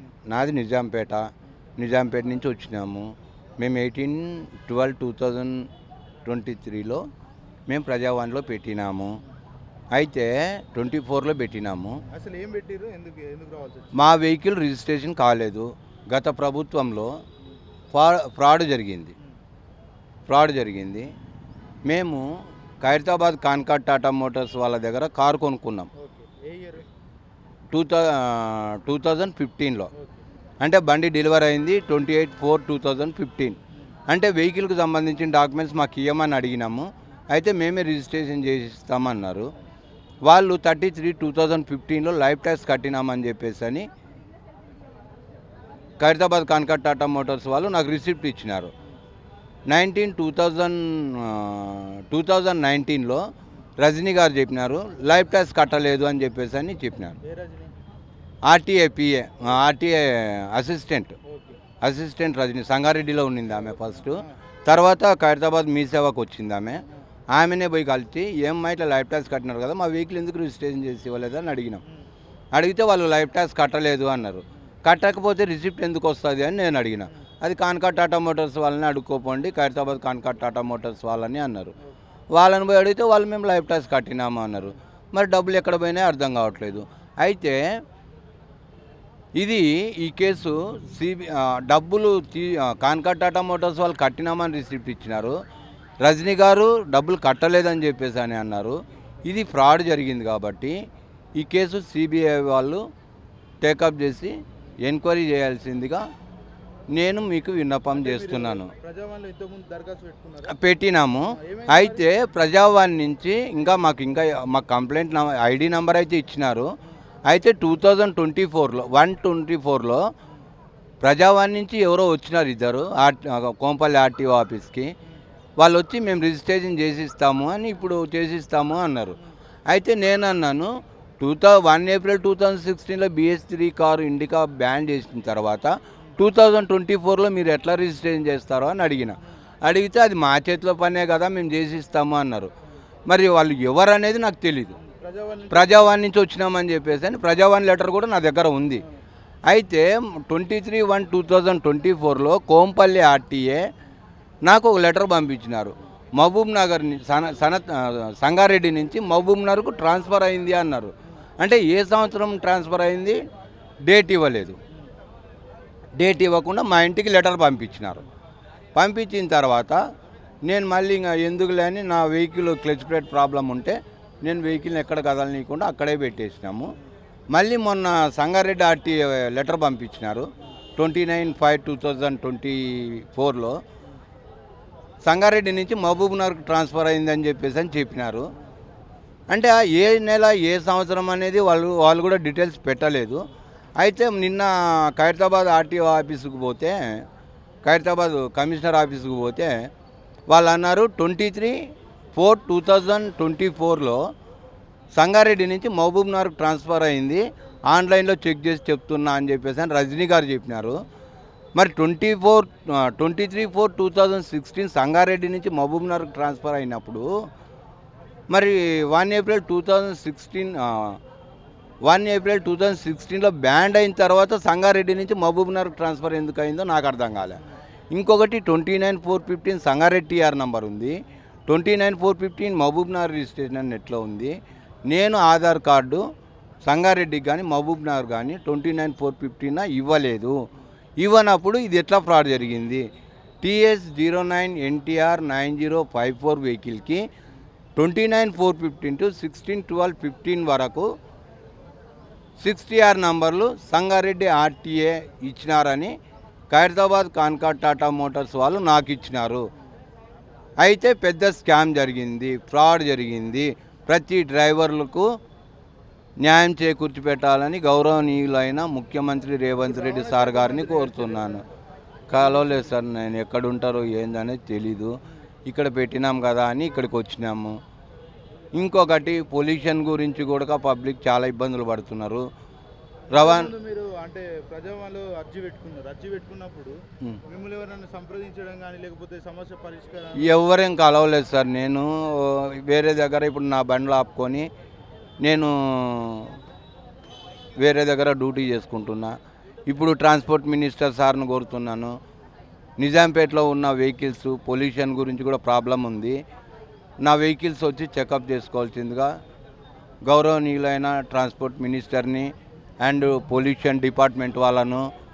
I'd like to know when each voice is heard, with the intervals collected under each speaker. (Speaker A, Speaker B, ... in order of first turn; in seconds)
Speaker A: 0.3-3.1, 3.6-5.7, 6.2-7.0, 7.7-9.2, 9.9-12.0, 13.9-17.1, 17.9-19.1, 20.3-21.1, 21.9-22.2, 22.8-25.9, 27.7-29.9, 30.6-33.6, 34.1-39.5, 40.2-43.9, 46.0-48.7, 49.7-53.2, 53.8-57.2, 58.4-61.1, 61.8-71.8, 72.5-81.7, 82.3-87.7, 89.4-95.4, 96.0-100.8, 101.4-102.8, 103.6-106.0, 106.9-108.7, 110.5-116.7, 117.3-120.0, 121.0-124.9, 125.6-129.2, 129.7-130.7, 131.2-142.5, 143.1-144.7, 145.5-148.8, 149.5-153.6, 154.4-163.2, 163.9-164.6, 166.0-168.0, 168.8-169.8, 170.4-176.7, 177.3-180.2, 180.8-183.6, 185.0-188.2, 189.3-193.3, 193.8-197.0, 197.6-199.7, 200.3-201.6, 202.1-204.0, 204.9-210.8, 211.6-217.1, 218.3-221.0, 221.8-227.4, 227.9-230.9, 231.5-234.3, 234.9-236.0, 236.6-240.4, 241.0-242.8, 243.4-247.1, 247.8-250.9, 252.4-255.9, 256.5-259.4, 260.6-265.1, 266.2-271.4, 272.1-274.9, 275.4-277.5, 278.6-282.2, 283.1-283.5, 290.2-294.5, 295.2-296.3, 297.6-299.1, 299.7-301.9, 302.8-306.2, 307.0-309.1, 310.0-312.3, 312.8-314.8
Speaker B: 12.1-14.1, 26.0-26.9, 57.2-57.7, 61.3-61.6, 63.7-64.3, 107.9-110.6, 111.3-112.1, 144.8-145.9, 269.6-271.4, 272.2-272.7, 283.1-286.8, 287.3-290.3